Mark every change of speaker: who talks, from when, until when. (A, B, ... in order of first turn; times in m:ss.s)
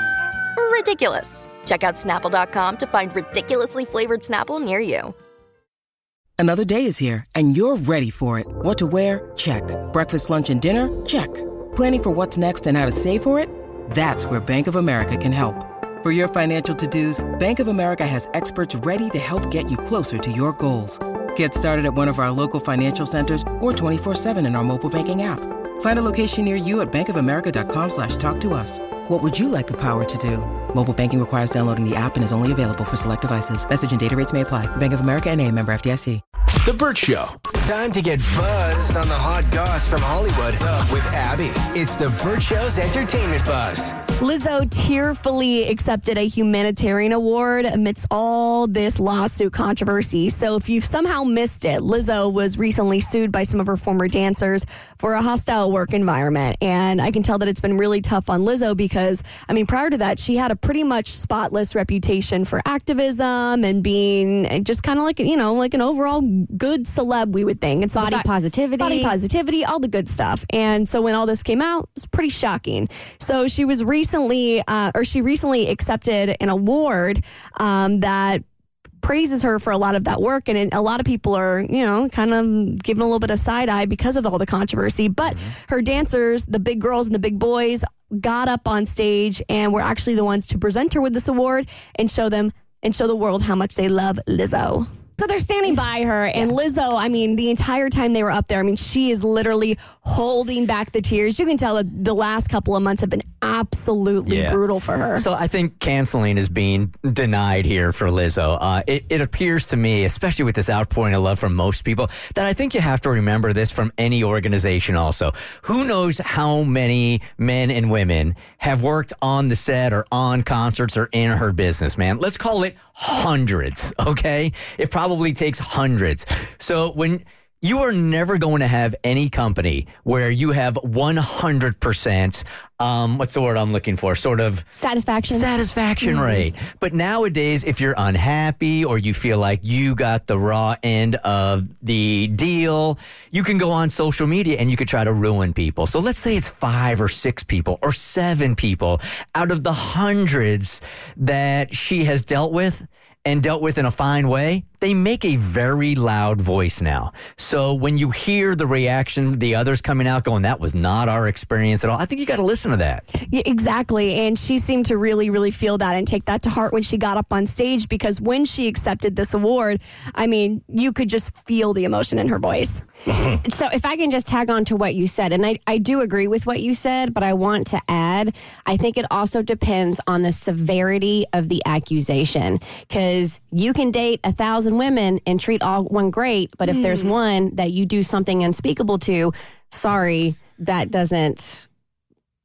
0:00.6-0:05.1 A
0:06.4-0:36.2 B
0:36.6-0:43.9 C
0:44.2-1:08.3 D
1:08.0-1:09.1 E
1:08.8-1:18.4 D
1:19.0-1:34.9 D
1:35.2-1:36.5 E
1:36.3-1:45.2 D
1:44.2-1:44.6 F
1:45.1-2:14.7 F
2:14.7-2:15.5 E
2:15.3-2:43.0 F
2:16.0-2:16.4 E
2:43.3-2:52.8 D
2:53.1-3:11.6 E